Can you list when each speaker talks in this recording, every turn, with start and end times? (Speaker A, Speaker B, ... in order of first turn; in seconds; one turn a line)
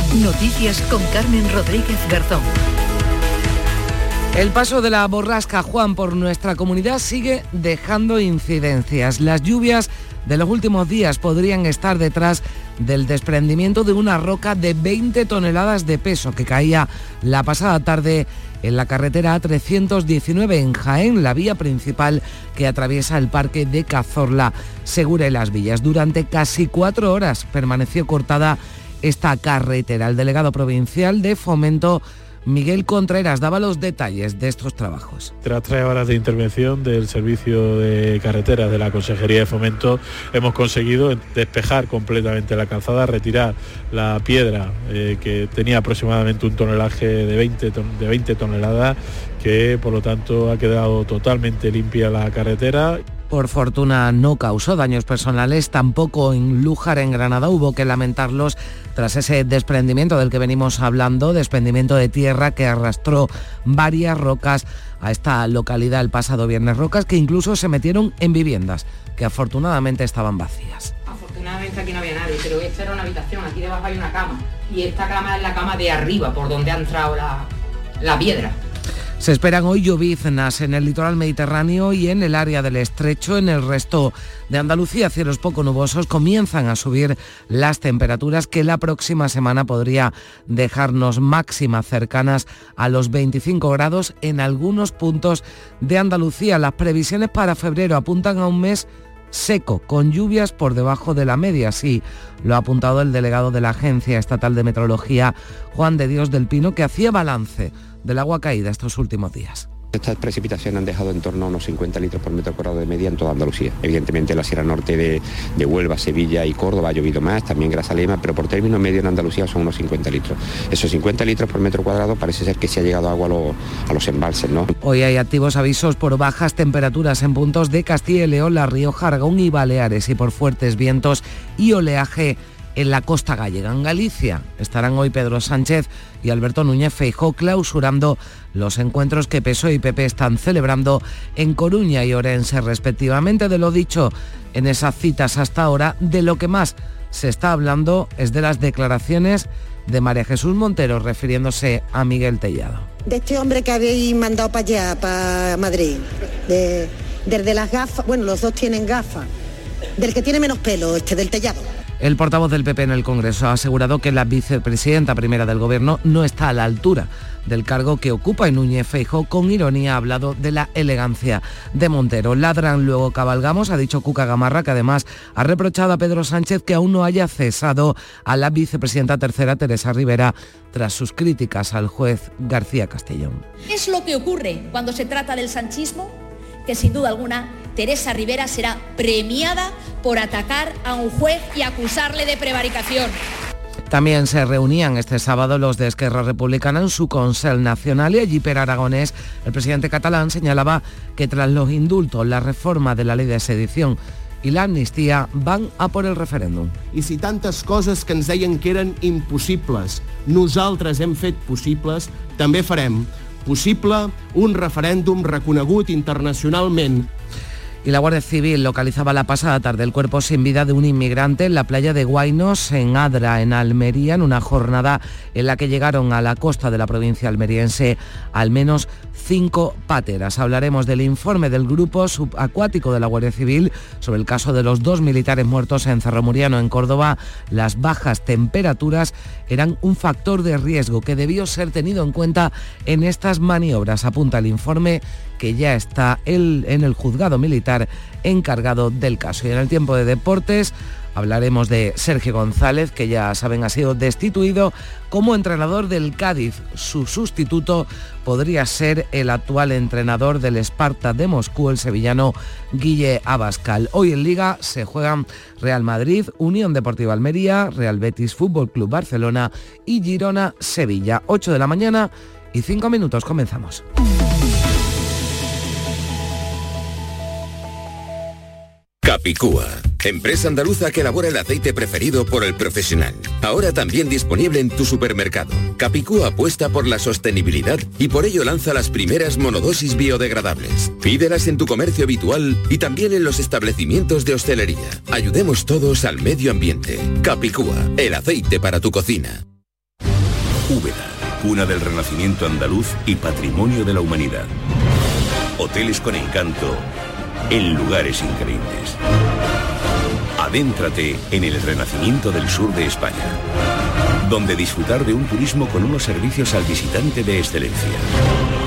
Speaker A: 0.1-2.5
Speaker B: 4.3-35.3
Speaker C: 35.4-53.0
Speaker B: 53.3-70.9
Speaker D: 71.0-77.5
Speaker D: 78.0-78.5
Speaker B: 79.2-109.7
Speaker E: 109.9-124.7
Speaker B: 124.8-152.9
Speaker F: 153.1-159.3
Speaker F: 160.0-161.6
Speaker B: 162.0-183.4
Speaker G: 183.7-193.2
Speaker B: 193.9-206.7
Speaker H: 206.9-217.1
Speaker B: 217.8-273.8
Speaker I: 279.0-299.4
Speaker J: 300.7-304.5
Speaker J: 305.6-306.8
Speaker J: 307.5-309.0
Speaker J: 310.4-313.4
Speaker J: 314.2-318.1